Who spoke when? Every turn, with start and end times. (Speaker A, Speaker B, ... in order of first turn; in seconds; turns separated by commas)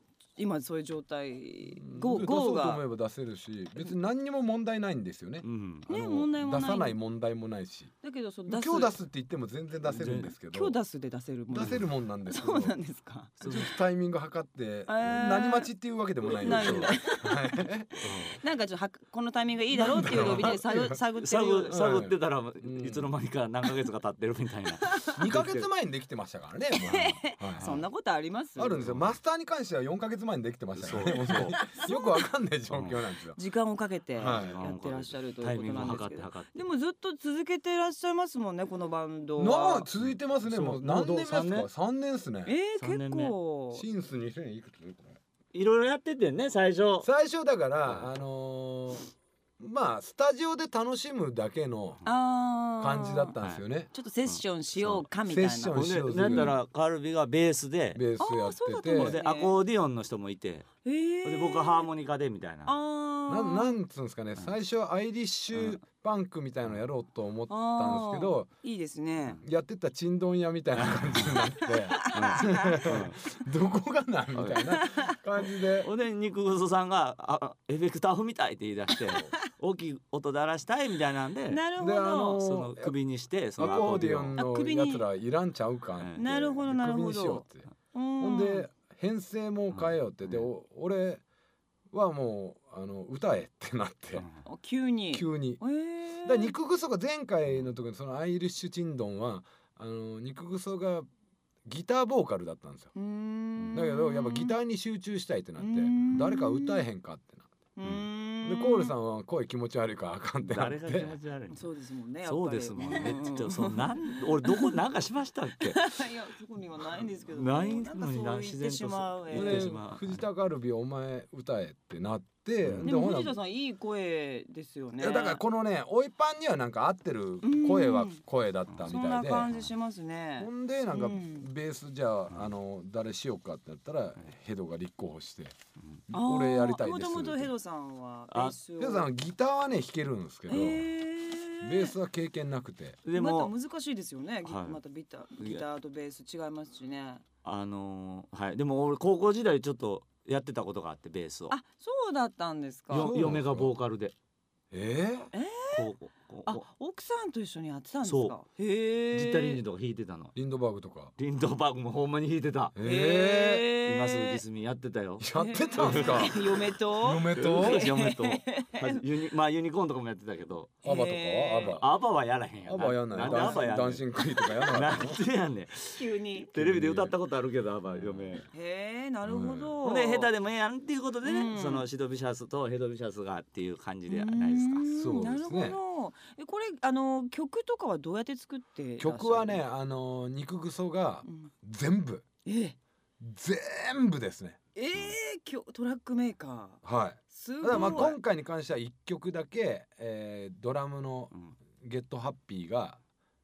Speaker A: 0.4-2.8, Speaker B: 1.8-7.9, Speaker C: 5.4-5.9, Speaker A: 5.9-7.0, Speaker A: 8.0-9.0, Speaker B: 8.5-10.8, Speaker C: 9.9-10.3, Speaker A: 10.5-13.7, Speaker B: 11.5-12.8, Speaker C: 13.4-13.7, Speaker B: 13.5-18.3, Speaker A: 14.9-15.7, Speaker A: 16.3-17.6, Speaker C: 16.4-16.9, Speaker C: 18.0-18.4, Speaker A: 18.4-21.8, Speaker B: 19.7-21.0, Speaker C: 20.1-20.6, Speaker C: 21.2-25.7, Speaker B: 21.7-23.1, Speaker B: 25.2-27.6, Speaker A: 26.8-28.8, Speaker C: 27.6-27.9, Speaker B: 28.6-33.4, Speaker C: 28.8-29.2, Speaker C: 30.8-31.6, Speaker A: 31.1-32.3, Speaker C: 32.7-33.0, Speaker A: 33.4-39.9, Speaker B: 34.2-34.6, Speaker C: 34.2-36.6, Speaker B: 39.4-42.5, Speaker C: 40.0-41.7, Speaker A: 42.5-43.9, Speaker C: 42.8-43.4, Speaker B: 43.7-45.2, Speaker C: 45.5-47.1, Speaker B: 47.0-49.1, Speaker B: 49.6-52.0, Speaker A: 52.1-53.4, Speaker B: 52.8-53.9, Speaker A: 53.9-55.8, Speaker B: 54.8-56.6, Speaker C: 55.7-58.0, Speaker B: 57.9-59.2, Speaker A: 58.2-59.6, Speaker C: 58.9-62.7, Speaker A: 60.8-61.9, Speaker A: 62.7-63.8, Speaker B: 63.3-68.5, Speaker C: 65.5-65.8, Speaker A: 67.5-69.4, Speaker B: 69.4-75.9, Speaker C: 70.8-71.4, Speaker A: 71.9-72.9, Speaker C: 72.1-73.2, Speaker C: 74.3-74.7, Speaker A: 74.7-75.2, Speaker C: 75.8-81.6, Speaker A: 81.5-82.4, Speaker B: 81.8-83.0, Speaker C: 82.4-84.4, Speaker B: 83.6-87.7, Speaker A: 83.6-85.1, Speaker C: 86.0-86.2, Speaker A: 86.2-88.7, Speaker B: 88.2-91.2, Speaker C: 89.7-90.5, Speaker B: 91.9-94.3, Speaker A: 94.4-96.5, Speaker B: 95.1-95.6, Speaker B: 96.2-101.1, Speaker B: 101.7-102.9, Speaker A: 103.0-104.5, Speaker B: 103.7-107.5, Speaker A: 105.6-106.8, Speaker A: 107.8-109.0, Speaker B: 108.4-111.2, Speaker C: 110.4-111.7, Speaker A: 111.5-114.8, Speaker C: 112.2-116.0, Speaker B: 112.9-113.2, Speaker A: 115.7-119.8, Speaker C: 117.3-120.2, Speaker B: 119.3-123.4, Speaker C: 122.6-122.9, Speaker A: 122.8-125.4, Speaker B: 125.0-129.5, Speaker A: 127.4-128.2, Speaker A: 128.8-131.5, Speaker B: 130.4-135.6, Speaker B: 136.1-137.5, Speaker A: 136.1-139.1, Speaker C: 138.3-138.6, Speaker B: 138.8-140.9, Speaker A: 140.5-141.9, Speaker B: 141.6-143.0, Speaker C: 143.1-143.5, Speaker A: 143.1-147.2, Speaker C: 144.4-144.8, Speaker C: 147.4-151.6, Speaker A: 151.5-153.1, Speaker C: 152.9-154.1, Speaker B: 152.9-153.7, Speaker B: 154.7-155.3, Speaker A: 155.3-155.9, Speaker C: 155.7-156.6, Speaker A: 156.5-159.6, Speaker C: 158.0-158.3, Speaker C: 159.1-160.3, Speaker B: 160.3-161.1, Speaker C: 161.2-162.8, Speaker B: 162.8-163.7, Speaker A: 162.8-164.4, Speaker C: 163.8-166.6, Speaker B: 165.2-167.9, Speaker A: 165.4-169.0, Speaker C: 167.3-170.8, Speaker A: 170.8-171.8, Speaker B: 170.8-171.9, Speaker C: 171.7-174.2, Speaker B: 172.7-175.2, Speaker A: 173.2-173.7, Speaker C: 174.7-178.4, Speaker A: 175.9-176.5, Speaker B: 176.6-177.2, Speaker A: 178.5-180.3, Speaker B: 179.2-179.8, Speaker C: 179.8-184.8, Speaker A: 181.2-181.9, Speaker A: 184.1-189.7, Speaker B: 184.9-185.8, Speaker B: 189.0-192.2, Speaker A: 191.2-191.5, Speaker A: 192.4-192.8, Speaker B: 193.2-194.6, Speaker A: 194.8-198.2, Speaker B: 196.8-203.0, Speaker C: 197.7-198.1